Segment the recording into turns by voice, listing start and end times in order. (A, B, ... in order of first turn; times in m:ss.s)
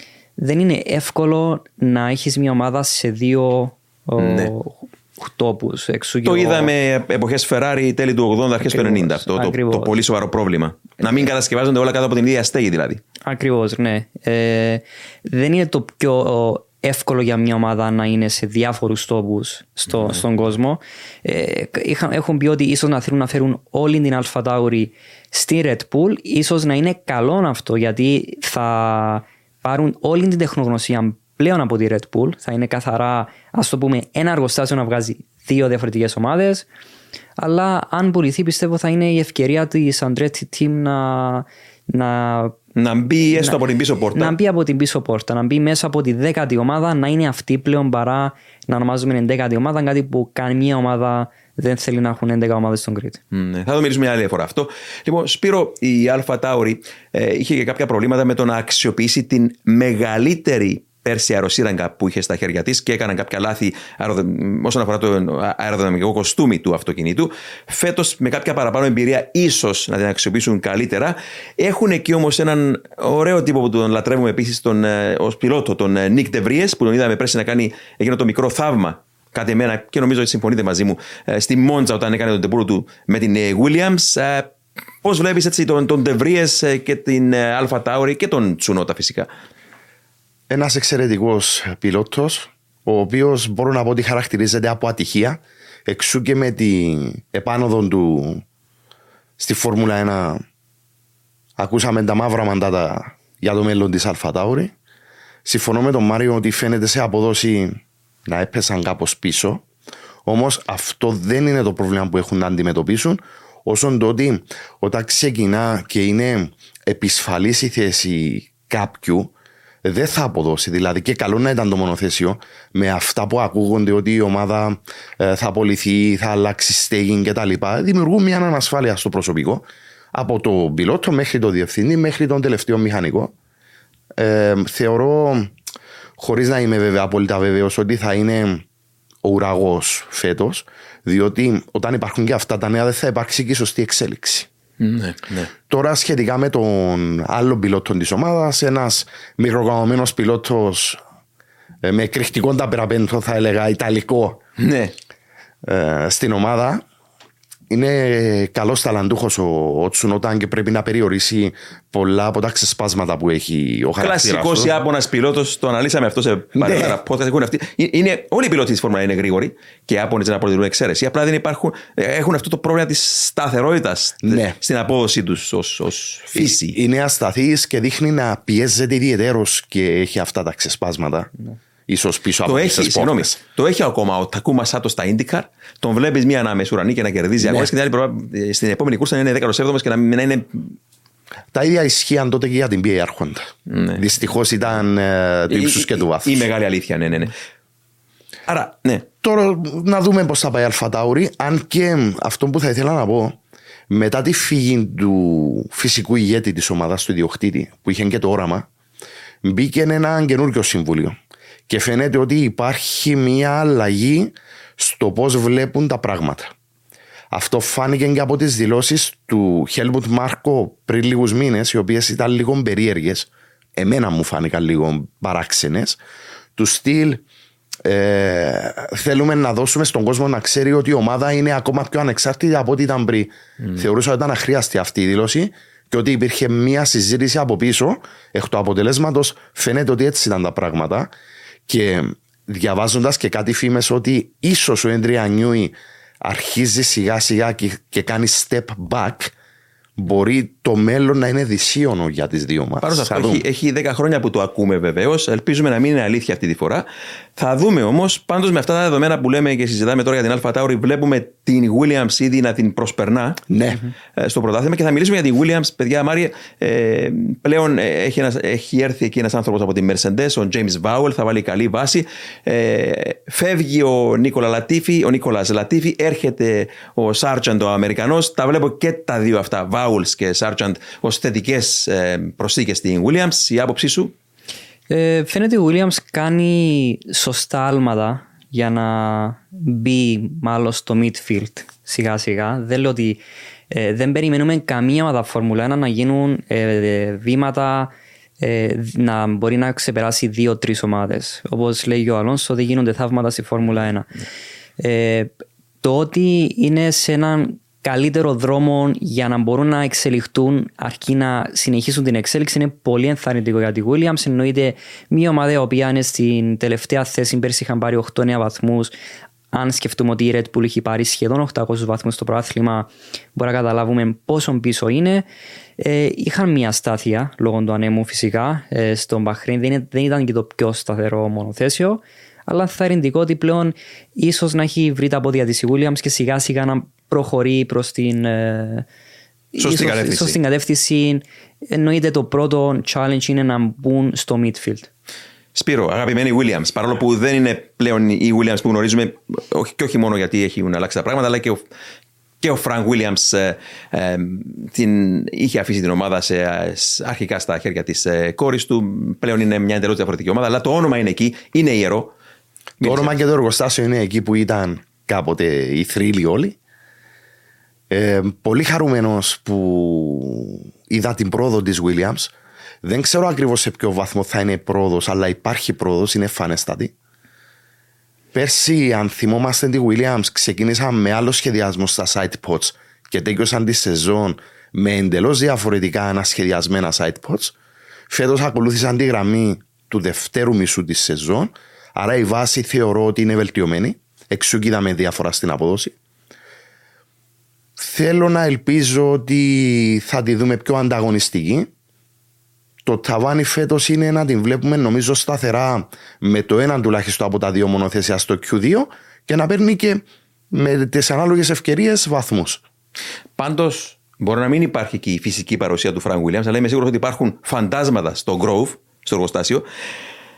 0:00.4-0:06.7 A
0:04.2-0:04.5 B
0:06.2-0:13.0 B
0:08.6-0:09.9 A
0:13.2-0:36.6 A
0:37.4-0:42.6 A
0:42.8-0:44.3 B
0:43.3-0:43.6 A
0:44.1-0:53.2 A
0:53.3-1:29.3 B
1:30.5-1:38.4 C
1:39.4-1:40.4 C
1:41.6-1:44.7 C
1:45.4-1:49.6 C
1:50.2-1:59.3 C
1:59.8-2:13.3 C
2:14.2-2:15.5 C
2:16.2-2:18.6 C
2:19.2-2:24.5 C
2:24.8-2:25.5 B
2:25.7-2:31.0 C
2:31.8-2:34.4 C
2:34.6-2:34.9 B
2:35.6-2:36.8 C
2:37.7-2:44.7 C
2:44.0-2:56.8 B
2:46.6-2:47.0 C
2:54.2-2:54.6 C
2:56.3-3:01.3 C
3:01.9-3:03.4 C
3:02.4-3:10.8 B
3:07.4-3:07.7 C
3:11.5-3:16.5 C
3:13.7-3:14.0 B
3:15.5-3:17.3 B
3:18.5-3:19.1 B
3:19.2-3:23.4 C
3:23.9-3:28.7 C
3:29.4-3:31.2 C
3:31.7-3:36.5 C
3:37.3-3:46.0 C
3:46.6-3:47.2 C
3:47.8-4:01.1 C
4:01.7-4:09.3 C
4:10.0-4:13.4 C
4:12.8-4:16.8 B
4:17.4-4:23.4 B
4:23.5-4:23.8 C
4:24.1-4:44.1 B
4:44.9-4:53.2 A
4:53.7-5:04.1 A
5:04.8-5:18.9 A
5:19.5-5:25.2 A
5:25.8-5:38.8 A
5:39.5-5:44.9 A
5:39.6-5:40.4 B
5:45.5-5:51.6 B
5:52.4-6:02.1 B
6:02.8-6:03.1 B
6:02.8-6:06.6 C
6:07.9-6:16.9 C
6:18.3-6:27.5 C
6:28.1-6:35.9 C
6:37.8-6:41.7 C
6:42.8-6:52.6 C
6:53.4-6:59.6 B